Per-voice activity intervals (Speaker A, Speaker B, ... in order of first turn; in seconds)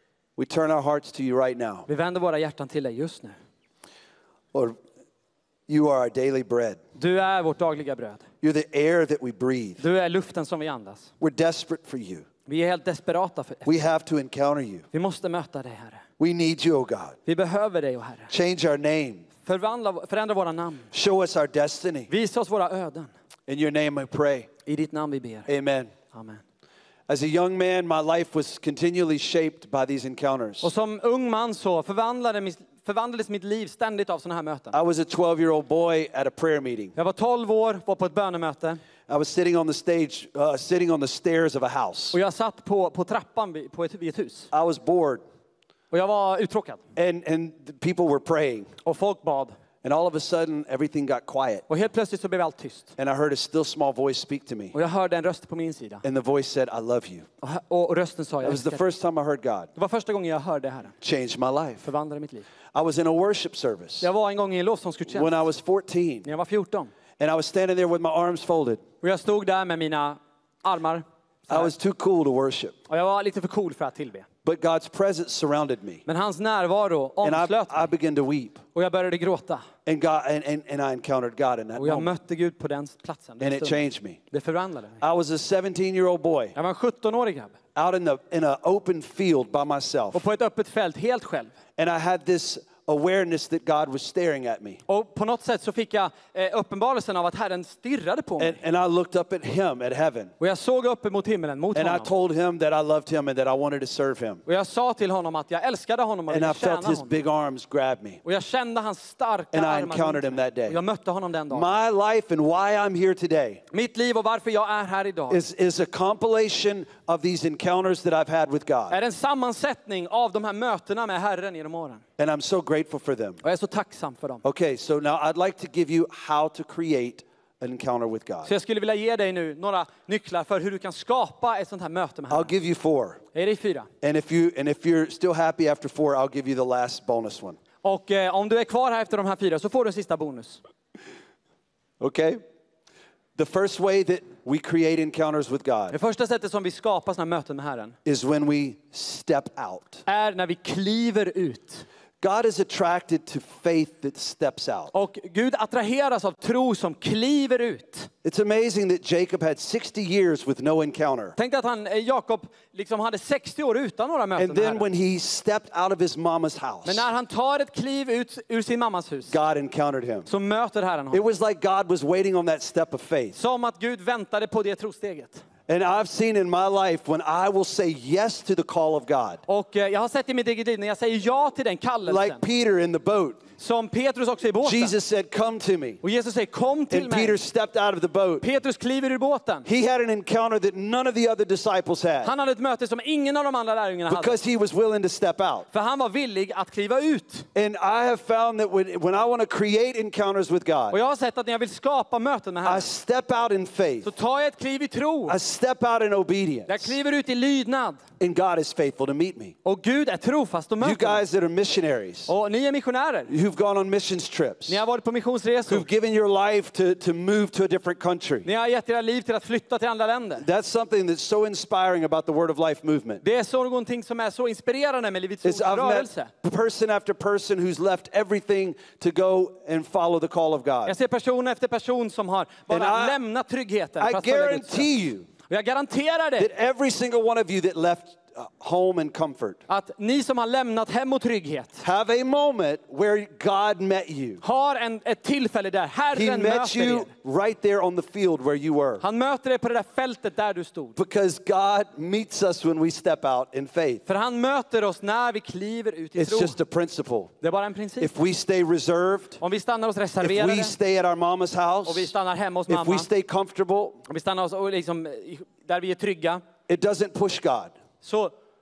Speaker A: 0.4-1.9, 4.5-4.8, 5.7-6.8, 8.4-9.8, 11.2-12.3, 13.7-14.9, 16.2-17.2, 18.3-19.3, 20.9-22.1, 23.5-24.6, 25.5-26.0, 27.1-30.7, 34.7-37.0, 39.1-42.2, 44.5-45.2, 47.0-48.8, 49.8-51.7, 53.0-54.8, 56.0-57.3, 58.4-59.7, 61.0-61.9, 62.6-64.1, 65.1-66.3, 67.2-68.8, 71.5-72.8, 74.5-76.0, 77.2-78.7, 79.8-82.1, 83.4-84.2, 85.0-86.5, 87.8-90.3, 91.8-94.8, 98.4-100.3, 101.8-104.5, 106.3-108.2, 109.5-110.8, 111.5-113.6, 115.3-119.0, 122.2-123.4, 124.4-128.5, 132.3-133.3, 134.0-137.6, 142.0-142.4, 143.4-146.0, 148.1-150.1, 152.2-154.9, 158.2-161.3, 164.4-167.1, 169.3-170.3, 171.1-173.4, 175.7-179.4, 182.1-183.5, 184.6-186.0, 186.9-188.5, 189.7-192.3, 194.1-195.7, 197.6-201.0, 202.6-204.1, 205.3-206.9, 208.2-209.6, 210.8-212.3, 213.3-214.8, 215.7-218.5, 220.4-223.2, 225.4-230.9, 232.7-233.2, 234.0-235.3, 236.4-239.6, 241.8-244.4, 246.1-249.0, 251.0-254.1, 256.2-257.4, 258.0-259.4, 260.2-262.1, 262.7-264.0, 266.7-267.8
Speaker B: 1.9-3.4, 7.0-8.3, 9.8-11.1, 12.5-13.7, 14.9-16.0, 17.3-18.3, 19.4-20.9, 22.1-23.1, 24.7-25.5, 26.1-26.4, 30.6-34.8, 37.0-38.8, 42.1-44.5, 45.9-46.8, 48.9-49.6, 51.7-52.9, 54.7-56.0, 57.4-58.8, 59.8-60.9, 61.8-62.5, 64.0-65.4, 66.2-66.9, 69.0-71.7, 72.9-74.3, 76.1-77.9, 78.7-79.7, 81.8-85.0, 86.5-87.6, 90.1-91.5, 94.9-98.6, 100.4-102.1, 104.5-107.2, 108.2-111.7, 113.7-115.4, 118.9-122.0, 123.4-124.4, 128.5-132.5, 133.3-133.9, 137.8-140.6, 145.9-148.0, 150.1-151.9, 154.9-158.1, 161.4-164.9, 166.9-169.4, 170.3-171.3, 173.3-175.4, 179.5-182.4, 183.6-184.9, 186.0-187.4, 188.4-189.7, 192.2-194.4, 195.7-197.5, 200.9-202.9, 204.0-205.4, 206.7-208.0, 209.7-211.2, 212.3-213.3, 214.7-215.9, 218.5-220.5, 223.2-226.3, 230.9-234.9, 235.5-236.5, 239.7-241.8, 244.4-247.1, 249.0-251.0, 254.1-256.6, 257.4-258.1, 259.4-260.8, 261.9-263.1, 264.1-266.4, 268.0-268.3